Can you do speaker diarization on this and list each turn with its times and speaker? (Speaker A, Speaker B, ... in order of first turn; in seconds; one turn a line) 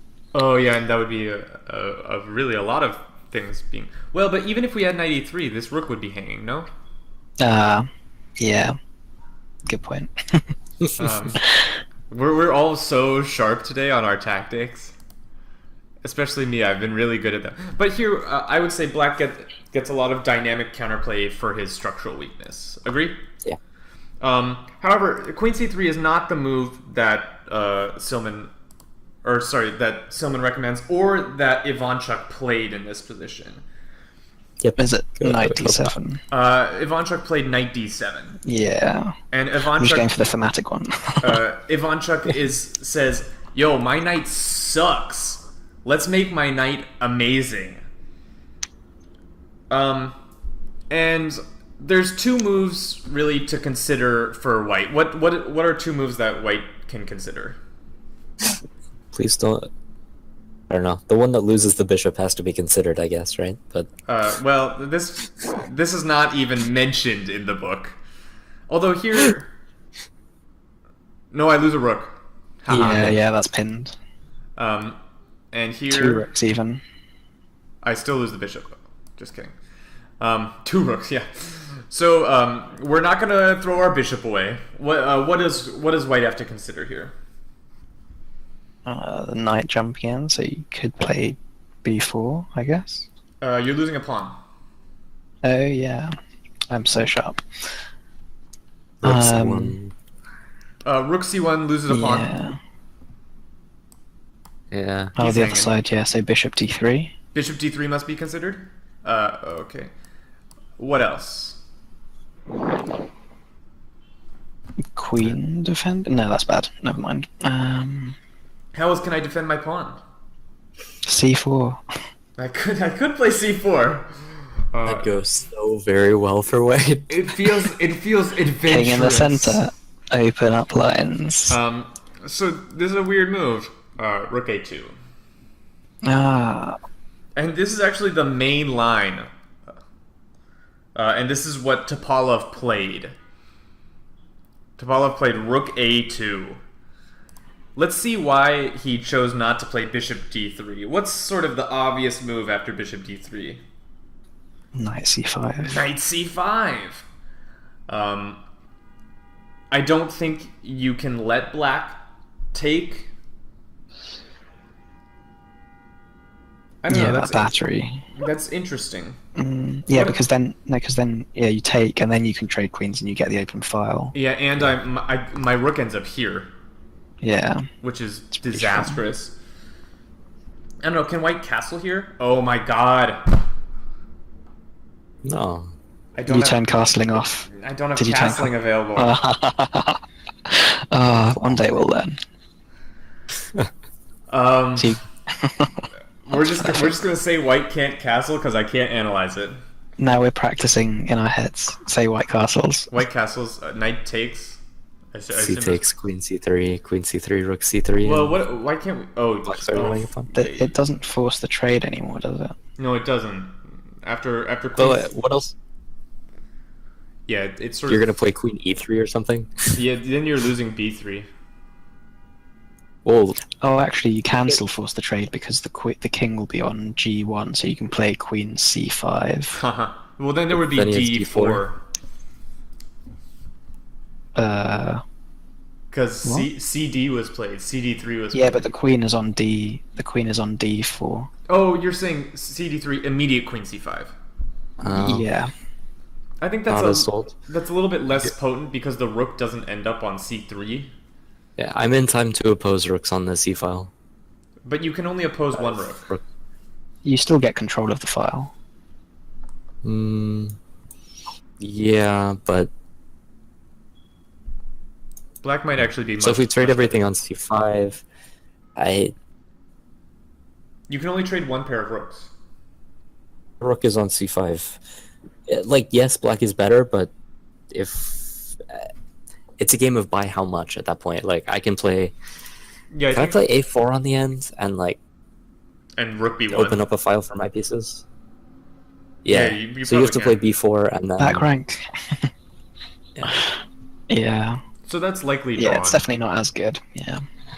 Speaker A: 0.3-6.7
Speaker B: 7.4-7.9
Speaker B: 8.4-8.8
Speaker B: 9.7-10.5
Speaker C: 10.8-11.1
Speaker A: 11.0-11.4
Speaker A: 12.1-14.9
Speaker A: 16.0-23.2
Speaker A: 24.2-28.5
Speaker A: 29.2-33.6
Speaker C: 34.6-35.9
Speaker B: 34.8-36.2
Speaker A: 36.3-38.4
Speaker B: 38.4-39.1
Speaker A: 39.3-40.1
Speaker B: 39.8-41.4
Speaker A: 41.2-47.8
Speaker A: 49.7-50.1
Speaker A: 50.9-57.6
Speaker C: 59.1-59.7
Speaker C: 60.7-63.9
Speaker A: 64.1-68.0
Speaker A: 68.7-69.5
Speaker A: 71.3-73.2
Speaker B: 72.7-74.0
Speaker C: 72.7-73.1
Speaker A: 74.6-75.0
Speaker A: 75.5-76.3
Speaker B: 75.9-76.8
Speaker A: 77.8-79.5
Speaker A: 80.2-87.1
Speaker B: 88.8-93.1
Speaker A: 93.4-94.4
Speaker B: 95.4-96.1
Speaker B: 96.7-97.4
Speaker C: 99.0-99.9
Speaker B: 99.0-99.8
Speaker A: 100.8-102.3
Speaker B: 101.9-102.6
Speaker C: 104.7-105.1
Speaker A: 105.2-105.7
Speaker B: 105.2-107.1
Speaker A: 107.3-109.9
Speaker A: 110.8-111.6
Speaker B: 114.9-118.2
Speaker A: 118.7-120.0
Speaker B: 121.0-121.8
Speaker A: 122.4-124.1
Speaker A: 124.7-125.2
Speaker C: 124.8-127.3
Speaker A: 127.1-129.6
Speaker B: 128.7-131.6
Speaker A: 131.5-134.9
Speaker B: 136.0-136.8
Speaker A: 137.3-139.3
Speaker A: 140.9-143.1
Speaker A: 144.8-146.6
Speaker A: 147.8-153.6
Speaker B: 154.7-155.8
Speaker A: 155.6-157.0
Speaker A: 157.9-158.4
Speaker A: 159.7-162.0
Speaker A: 162.5-163.1
Speaker A: 166.8-167.6
Speaker B: 166.9-168.1
Speaker A: 168.2-169.2
Speaker B: 169.3-174.1
Speaker A: 169.9-170.2
Speaker A: 174.1-176.5
Speaker B: 177.2-177.7
Speaker A: 177.8-179.3
Speaker B: 178.5-179.0
Speaker A: 180.8-183.3
Speaker C: 185.2-185.7
Speaker A: 186.2-186.7
Speaker B: 186.3-192.2
Speaker A: 187.5-189.2
Speaker C: 191.2-191.6
Speaker A: 194.3-195.0
Speaker B: 194.8-196.9
Speaker A: 196.2-199.6
Speaker B: 200.0-202.9
Speaker A: 202.9-204.6
Speaker A: 205.1-205.9
Speaker C: 205.3-208.4
Speaker A: 208.0-210.8
Speaker C: 209.4-210.3
Speaker B: 210.3-212.5
Speaker A: 212.8-215.1
Speaker C: 214.8-215.5
Speaker A: 217.3-218.2
Speaker C: 217.9-219.8
Speaker A: 219.7-221.3
Speaker C: 223.0-223.4
Speaker B: 223.6-229.6
Speaker A: 229.6-231.8
Speaker C: 230.5-231.6
Speaker B: 234.3-235.0
Speaker A: 235.9-238.7
Speaker B: 236.2-236.5
Speaker B: 238.3-241.3
Speaker A: 241.5-244.1
Speaker C: 244.8-245.3
Speaker B: 244.8-245.5
Speaker A: 246.4-250.9
Speaker C: 246.7-247.3
Speaker C: 251.6-253.9
Speaker A: 254.6-256.1
Speaker C: 255.5-256.2
Speaker B: 257.0-258.5
Speaker C: 259.8-260.6
Speaker C: 261.6-262.7
Speaker A: 265.4-267.0
Speaker C: 266.2-268.0
Speaker C: 268.8-269.1
Speaker A: 270.9-272.3
Speaker C: 273.6-274.8
Speaker C: 275.5-277.1
Speaker C: 277.7-278.9
Speaker C: 279.6-282.1
Speaker A: 282.9-283.4
Speaker C: 283.1-285.0
Speaker A: 286.0-286.8
Speaker C: 286.5-288.0
Speaker C: 289.2-291.5
Speaker A: 289.3-290.4
Speaker B: 291.2-292.3
Speaker C: 293.1-293.4
Speaker B: 293.3-293.5
Speaker B: 294.1-294.6
Speaker A: 294.9-296.0
Speaker B: 295.6-297.2